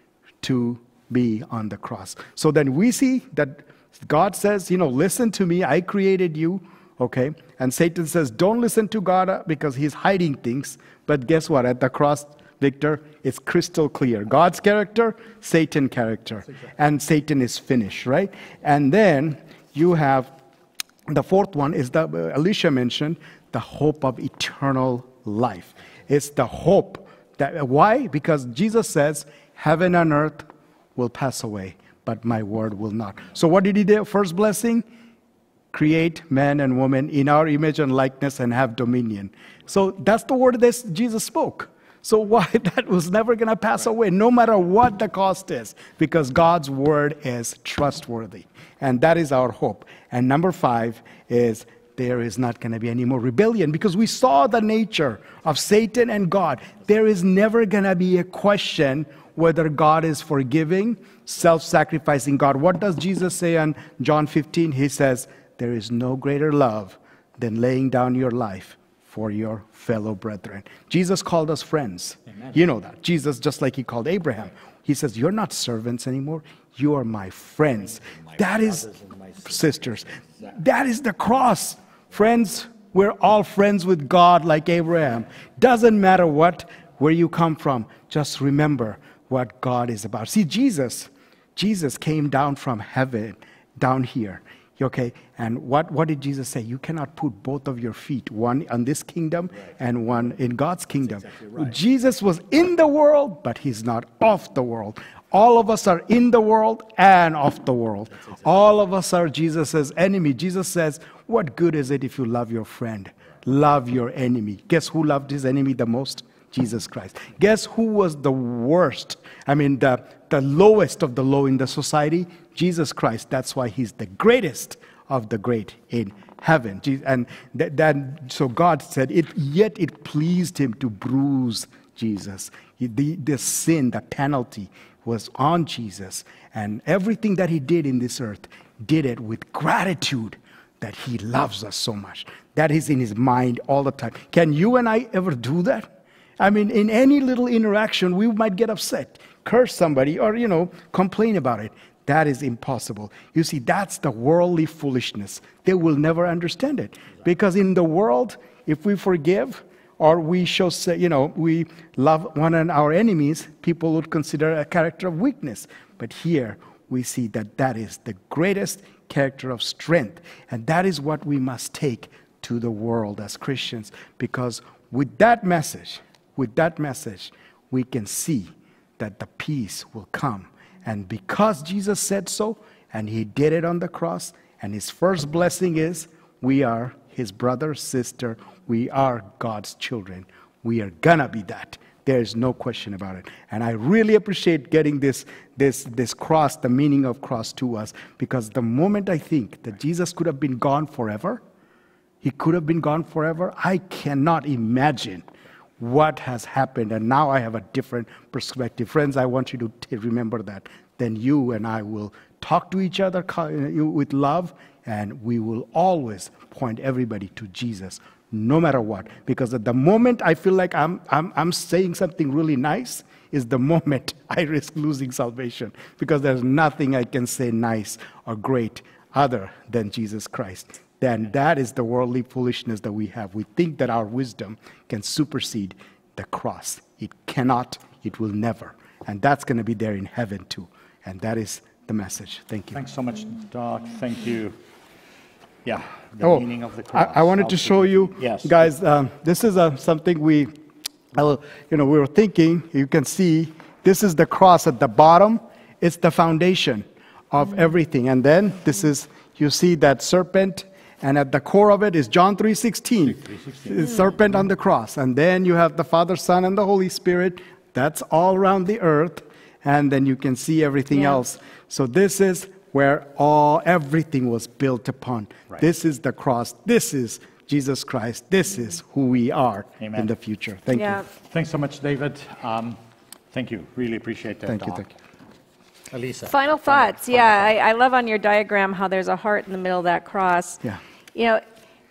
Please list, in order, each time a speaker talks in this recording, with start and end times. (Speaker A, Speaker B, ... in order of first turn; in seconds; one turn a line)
Speaker A: 0.4-20.3
Speaker A: 21.1-34.9
Speaker A: 35.7-78.9
Speaker B: 78.0-80.5
Speaker A: 79.4-201.4
Speaker A: 202.2-205.3
Speaker A: 205.8-242.8
Speaker B: 242.7-244.6
Speaker B: 245.7-248.7
Speaker A: 246.2-250.5
Speaker A: 251.1-281.0
Speaker B: 263.0-264.4
Speaker C: 270.9-271.2
Speaker B: 279.8-280.1
Speaker C: 280.7-281.1
Speaker B: 281.2-282.8
Speaker B: 283.3-284.9
Speaker A: 284.5-284.9
Speaker B: 285.9-287.5
Speaker C: 286.3-291.4